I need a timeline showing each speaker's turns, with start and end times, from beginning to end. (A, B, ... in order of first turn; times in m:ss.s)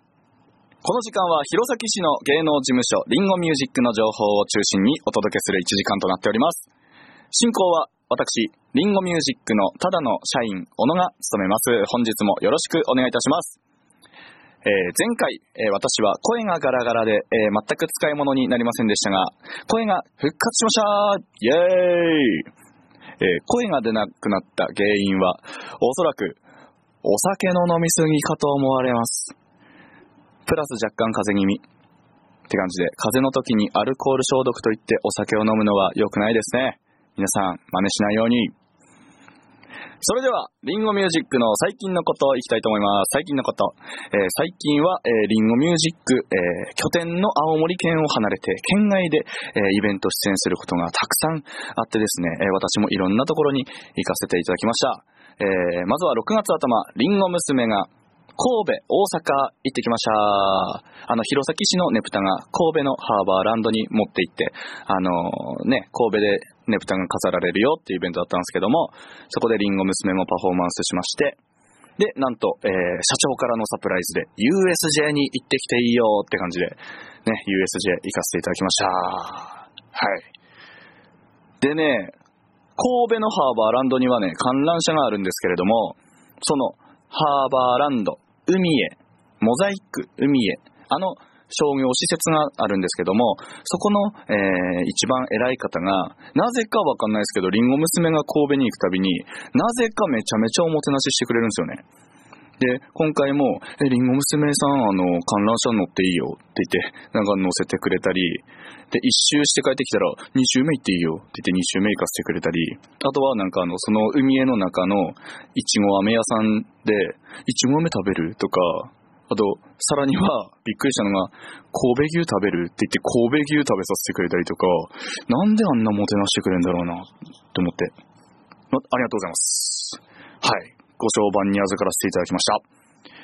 0:00.8-0:06.7 A
0:07.3-0:13.6 A
0:14.6-0:22.5 A
0:23.2-0:26.4 A
0:27.0-0:29.3 A
0:30.4-0:31.6 A
0:32.5-0:38.5 A
0:40.0-1:11.4 A
1:12.0-1:20.3 A
1:21.6-1:22.2 A
1:22.8-1:41.8 A
1:42.6-2:07.9 A
2:08.7-2:12.6 A